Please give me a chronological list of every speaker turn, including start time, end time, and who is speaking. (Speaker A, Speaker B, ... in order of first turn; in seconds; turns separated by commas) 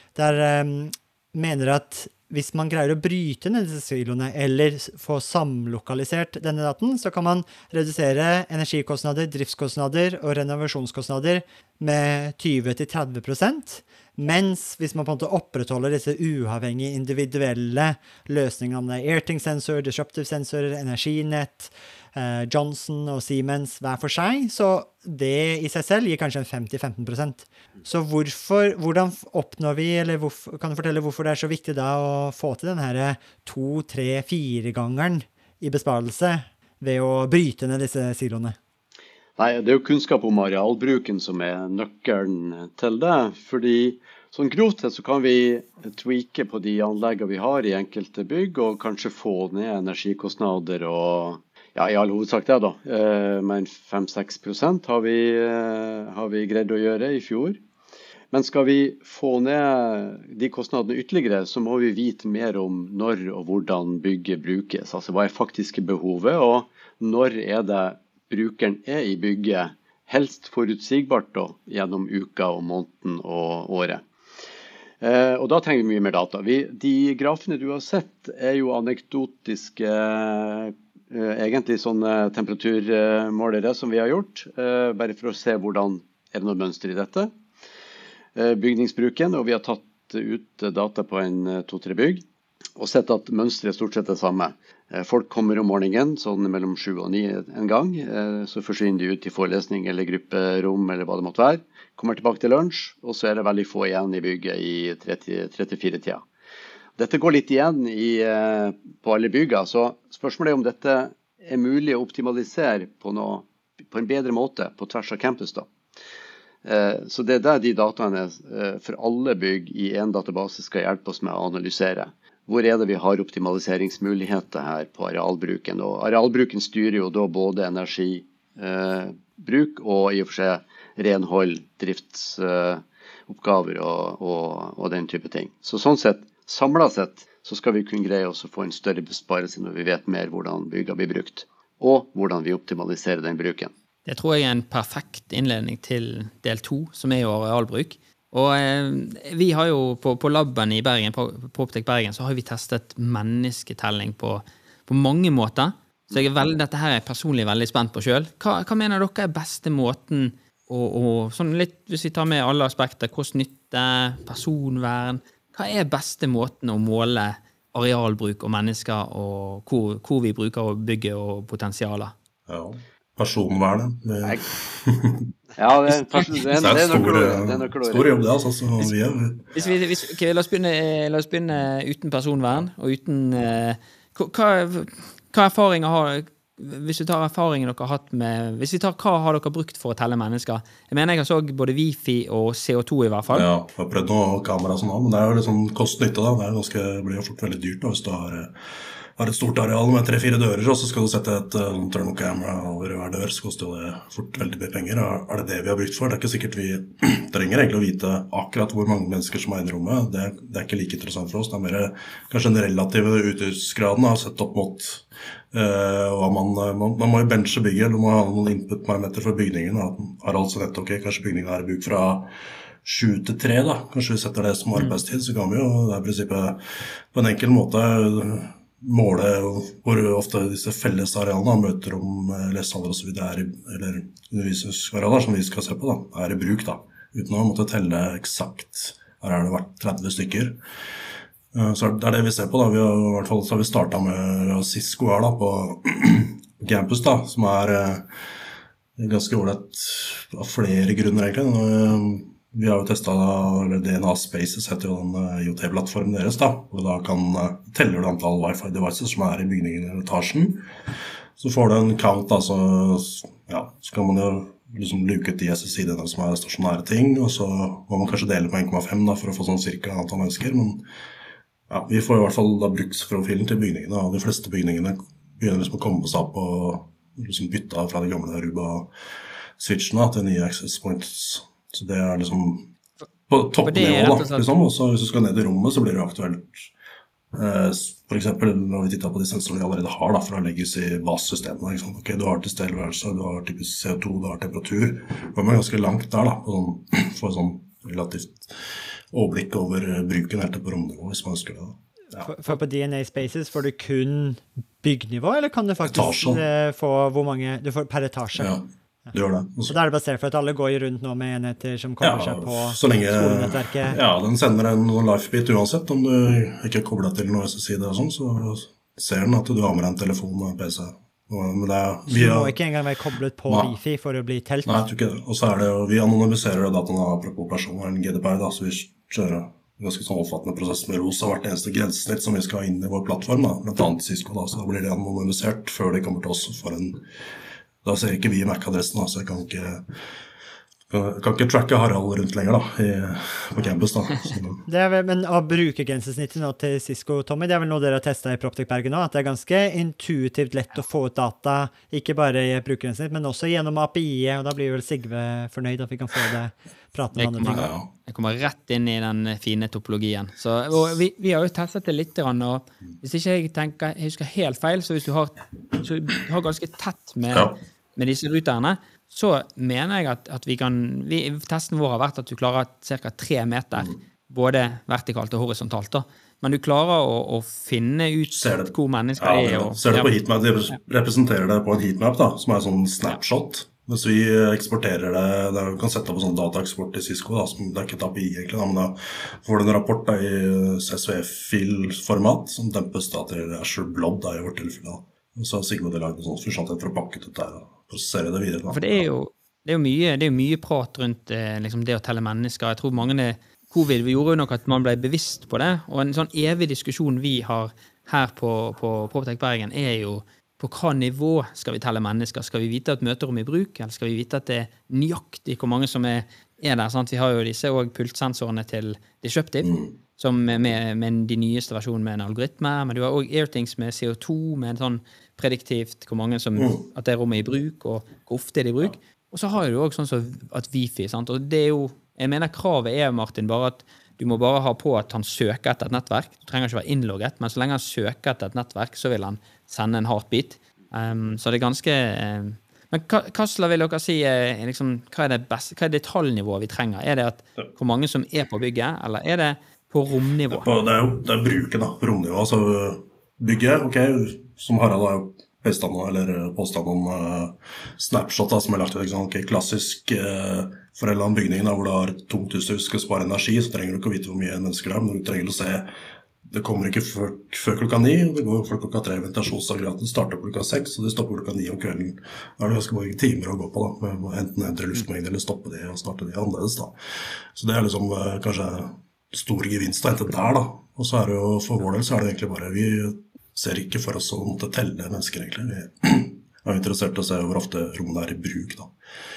Speaker A: 0.1-38.6, Speaker B: 39.4-57.6, Speaker B: 58.3-74.0, Speaker B: 75.0-87.3, Speaker B: 88.3-92.2, Speaker B: 92.8-106.2, Speaker B: 107.0-115.7, Speaker B: 116.6-143.7, Speaker C: 144.1-172.1, Speaker D: 172.5-175.3, Speaker B: 175.6-178.1, Speaker D: 176.5-179.6, Speaker C: 179.5-193.5, Speaker D: 193.3-198.5, Speaker D: 199.2-222.3, Speaker D: 222.8-226.6, Speaker D: 227.1-240.6, Speaker D: 241.5-248.1, Speaker D: 249.0-260.7, Speaker D: 261.4-270.8, Speaker D: 271.7-278.9, Speaker D: 279.6-282.7, Speaker D: 283.3-286.7, Speaker C: 283.6-284.5, Speaker D: 287.3-302.3, Speaker A: 302.2-309.1, Speaker D: 305.9-306.4, Speaker D: 308.4-309.7, Speaker A: 309.7-314.0, Speaker D: 312.0-322.5, Speaker A: 322.1-324.9, Speaker D: 324.6-337.0, Speaker D: 337.8-339.9, Speaker D: 340.9-344.6, Speaker A: 344.6-357.7, Speaker C: 357.1-380.1, Speaker D: 357.5-357.9, Speaker D: 367.3-367.6, Speaker D: 378.3-399.1, Speaker C: 398.7-450.6, Speaker D: 419.6-419.9, Speaker D: 426.6-426.8, Speaker D: 450.5-465.9, Speaker D: 466.5-476.9, Speaker D: 477.5-488.9